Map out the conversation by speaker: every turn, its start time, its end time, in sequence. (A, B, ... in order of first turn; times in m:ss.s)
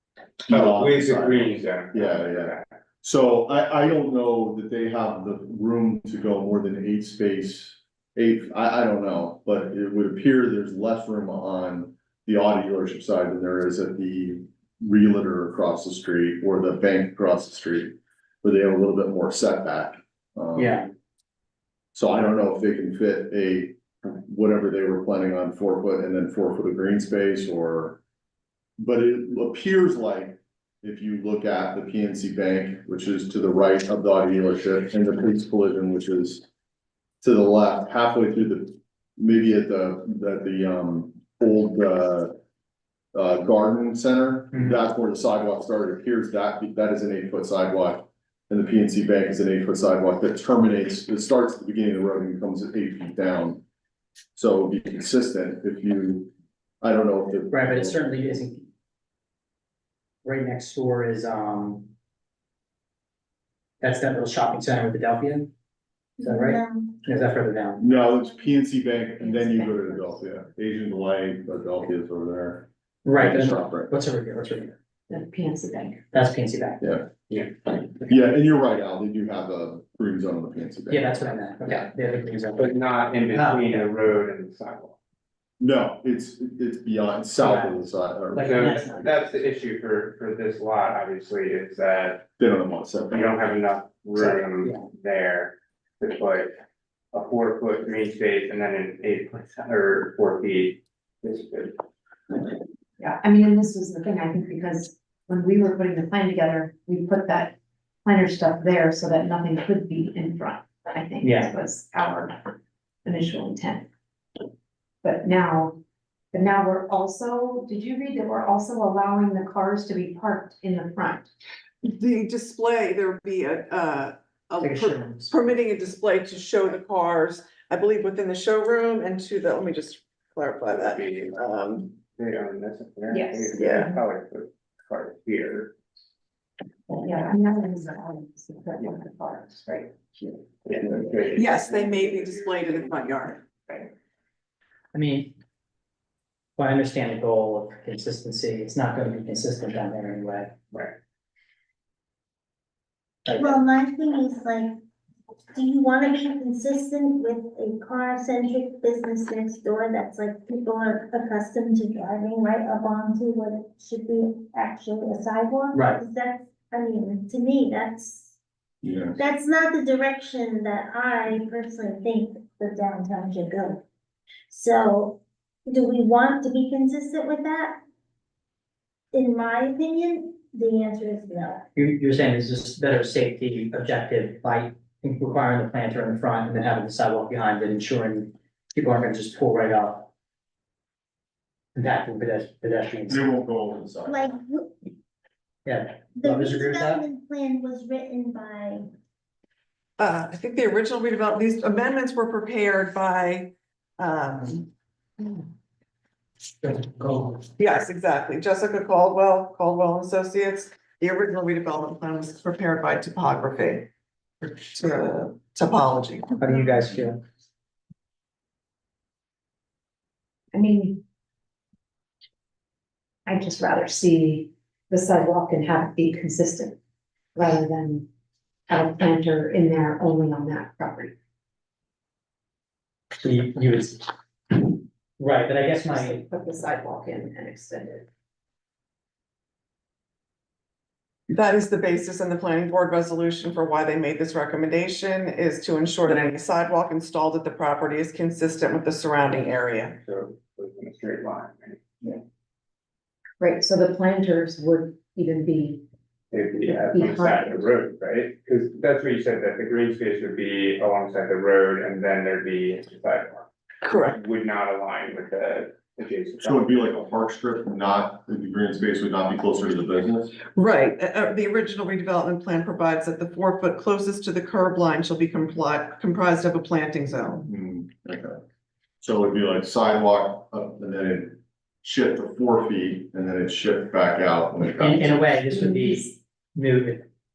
0:00.5-0:02.6 A
0:00.5-0:20.8 B
0:20.6-0:20.9 C
0:22.0-0:28.0 B
0:28.8-0:36.5 B
0:37.2-0:42.4 B
0:43.1-0:53.6 B
0:44.5-0:44.8 C
0:54.4-0:58.4 B
0:57.5-0:58.6 C
1:00.2-1:01.9 C
1:03.8-1:05.5 C
1:06.2-1:07.0 D
1:06.2-1:07.8 C
1:07.8-1:13.9 B
1:09.2-1:10.2 E
1:13.0-1:14.8 C
1:15.1-1:16.1 E
1:16.1-1:16.8 C
1:16.8-1:17.1 B
1:17.3-1:17.5 A
1:18.1-1:21.2 B
1:20.9-1:22.7 C
1:22.6-1:25.0 A
1:23.3-1:23.9 C
1:25.6-1:28.6 B
1:27.4-1:27.8 C
1:28.3-1:29.1 C
1:28.4-1:32.2 A
1:32.4-1:33.4 B
1:33.1-1:36.6 A
1:34.2-1:34.8 C
1:37.1-1:41.8 A
1:43.0-1:52.5 E
1:51.2-1:51.5 C
1:53.0-1:53.9 E
1:55.0-1:55.8 E
1:56.3-2:01.3 E
2:01.8-2:12.0 F
2:04.6-2:05.3 C
2:10.7-2:11.4 A
2:12.1-2:15.7 A
2:13.1-2:13.9 E
2:13.7-2:13.9 F
2:16.9-2:21.3 E
2:20.6-2:23.0 A
2:21.3-2:23.5 F
2:24.9-2:25.3 C
2:26.6-2:30.5 C
2:33.3-2:34.8 D
2:35.5-2:48.4 D
2:45.7-2:46.0 C
2:48.8-2:49.2 B
2:49.2-2:53.8 D
2:54.5-2:57.8 D
2:59.1-3:01.7 D
3:01.8-3:10.1 C
3:11.8-3:13.2 C
3:13.1-3:14.2 B
3:14.1-3:14.7 D
3:15.6-3:17.0 C
3:16.2-3:18.9 D
3:20.0-3:24.7 F
3:26.6-3:27.4 C
3:27.6-3:33.9 F
3:34.4-3:36.4 F
3:36.4-3:37.2 C
3:40.5-3:41.0 E
3:43.3-3:46.8 E
3:47.4-3:48.1 E
3:48.7-3:51.1 E
3:53.2-3:56.2 C
3:55.8-3:58.1 E
4:01.3-4:10.0 F
4:10.0-4:11.8 A
4:13.4-4:15.8 E
4:16.3-4:23.5 A
4:16.6-4:17.6 E
4:23.8-4:24.2 F
4:24.0-4:26.8 A
4:26.4-4:30.3 B
4:30.6-4:37.5 F
4:37.5-4:38.4 B
4:39.0-4:45.2 B
4:44.7-4:47.0 C
4:45.5-4:46.2 E